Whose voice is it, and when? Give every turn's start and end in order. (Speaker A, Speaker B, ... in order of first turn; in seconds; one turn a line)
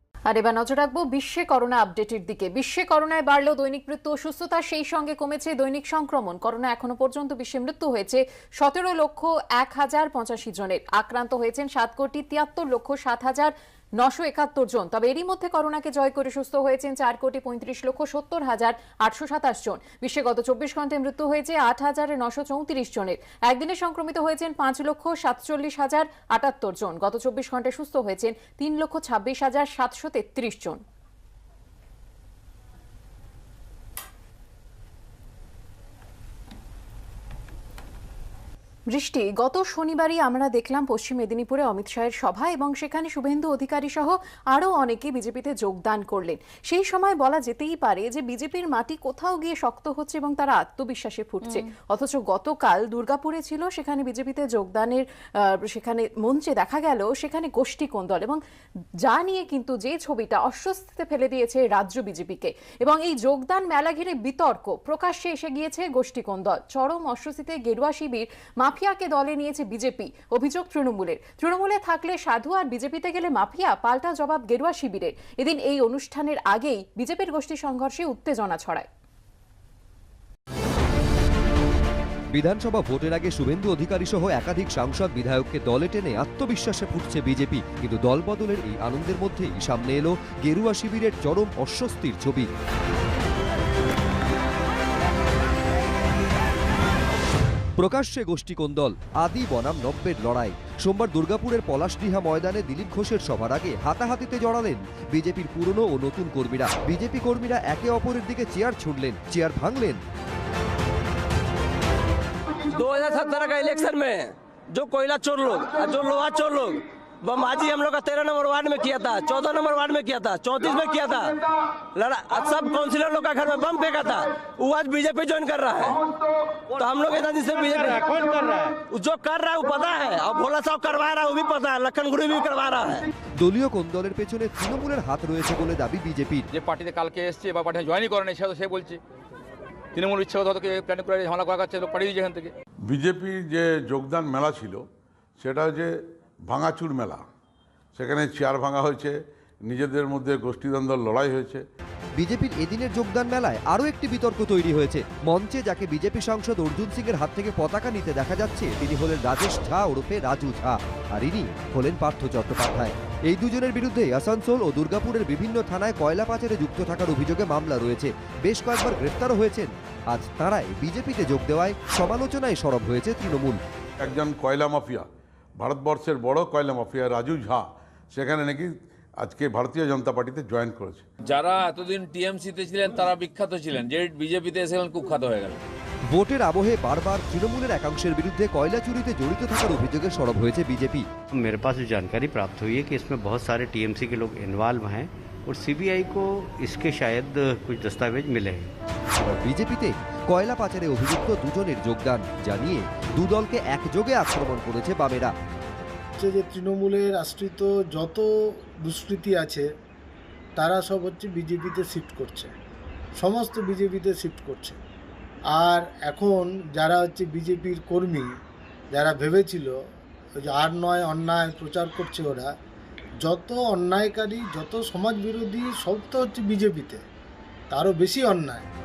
Speaker A: 0.3-30.8
Speaker A: 38.9-58.4
Speaker A: 59.0-78.9
Speaker B: 82.3-92.5
Speaker B: 97.8-110.0
Speaker C: 112.7-126.0
Speaker C: 126.7-133.1
Speaker B: 133.4-136.5
Speaker D: 136.5-139.0
Speaker D: 139.9-142.5
Speaker E: 142.8-144.8
Speaker E: 145.4-145.9
Speaker E: 146.5-147.2
Speaker E: 147.9-151.6
Speaker B: 152.2-173.6
Speaker E: 174.0-175.1
Speaker E: 175.6-181.1
Speaker F: 181.3-185.6
Speaker B: 186.1-191.1
Speaker G: 191.4-195.1
Speaker G: 195.6-196.5
Speaker B: 199.2-205.3
Speaker H: 206.2-208.3
Speaker H: 208.8-209.7
Speaker H: 210.6-212.5
Speaker H: 213.2-214.8
Speaker H: 215.5-218.3
Speaker H: 218.9-219.8
Speaker H: 220.4-222.5
Speaker H: 223.2-227.0
Speaker H: 227.7-228.7